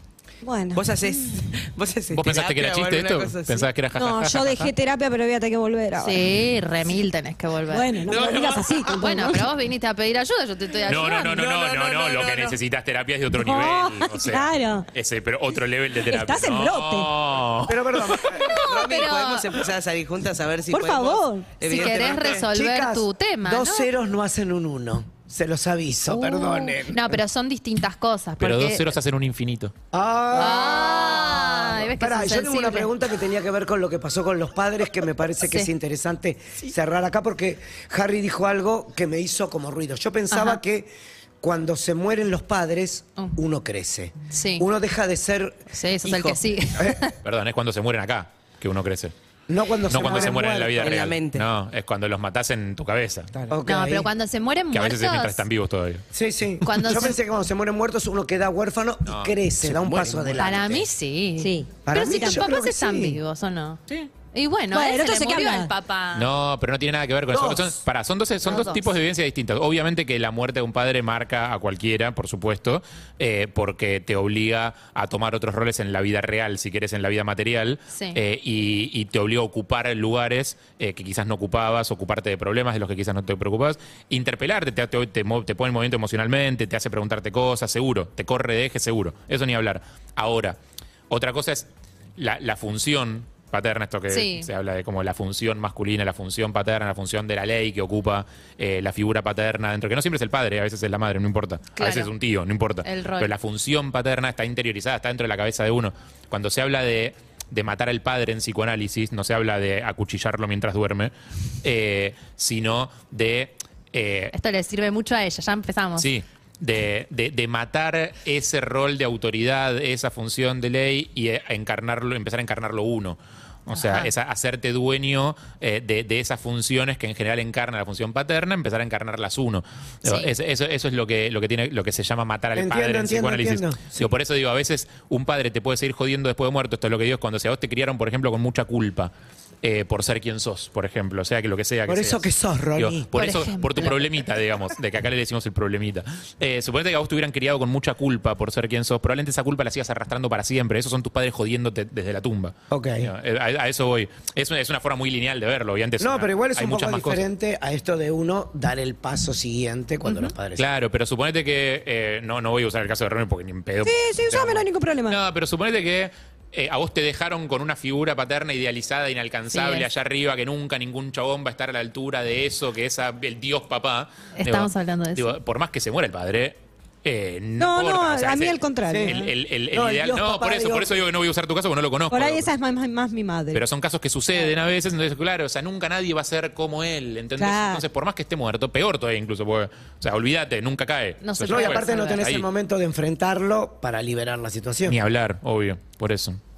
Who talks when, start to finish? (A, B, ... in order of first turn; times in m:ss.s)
0:00.4-0:01.5 A
0:00.8-0:03.7 B
0:02.1-0:04.5 C
0:03.9-0:06.3 A
0:06.0-0:07.9 D
0:07.6-0:09.5 A
0:08.1-0:08.7 C
0:08.1-0:08.4 B
0:08.9-0:11.4 D
0:10.8-0:18.4 C
0:11.2-0:12.6 B
0:13.3-0:14.9 A
0:16.0-0:17.1 A
0:17.6-0:18.5 E
0:18.2-0:19.5 D
0:18.5-0:22.5 B
0:20.7-0:21.6 A
0:21.6-0:23.9 D
0:22.2-0:27.2 E
0:26.1-0:28.9 D
0:28.4-0:29.7 C
0:29.9-0:40.9 E
0:30.3-0:32.9 D
0:35.4-0:35.7 D
0:40.3-0:40.6 D
0:41.4-0:45.6 E
0:44.3-0:44.6 D
0:45.7-0:47.2 D
0:46.0-0:46.4 B
0:47.2-0:49.1 C
0:49.5-0:50.9 E
0:49.9-0:53.3 C
0:50.0-0:51.4 B
0:53.5-0:54.1 E
0:53.6-0:55.4 D
0:54.7-0:56.0 C
0:56.1-1:00.8 E
0:56.6-0:57.2 D
0:59.0-0:59.3 C
0:59.6-1:00.8 B
1:00.4-1:03.8 D
1:01.4-1:02.4 A
1:01.9-1:03.2 E
1:04.3-1:06.3 D
1:04.7-1:05.7 A
1:06.1-1:30.6 C
1:07.3-1:07.7 E
1:08.4-1:08.9 D
1:17.9-1:18.2 D
1:31.1-1:54.3 C
1:34.1-1:34.5 D
1:41.7-1:42.1 D
1:42.8-1:43.3 D
1:54.3-1:56.1 D
1:56.0-2:19.1 C
2:03.7-2:04.1 D
2:10.0-2:10.3 D
2:12.6-2:14.1 E
2:19.6-2:37.3 C
2:21.9-2:23.1 E
2:23.1-2:24.0 D
2:32.7-2:33.1 E
2:36.0-2:40.6 E
2:40.6-3:02.5 C
2:43.8-2:45.2 A
2:49.5-2:49.9 D
2:54.4-2:55.4 D
2:57.6-2:59.3 A
2:58.9-2:59.2 E
2:59.7-3:01.0 E
3:02.1-3:03.6 A
3:03.5-3:12.4 C
3:07.4-3:07.8 A
3:11.2-3:12.2 D
3:11.5-3:15.0 E
3:14.9-3:16.4 C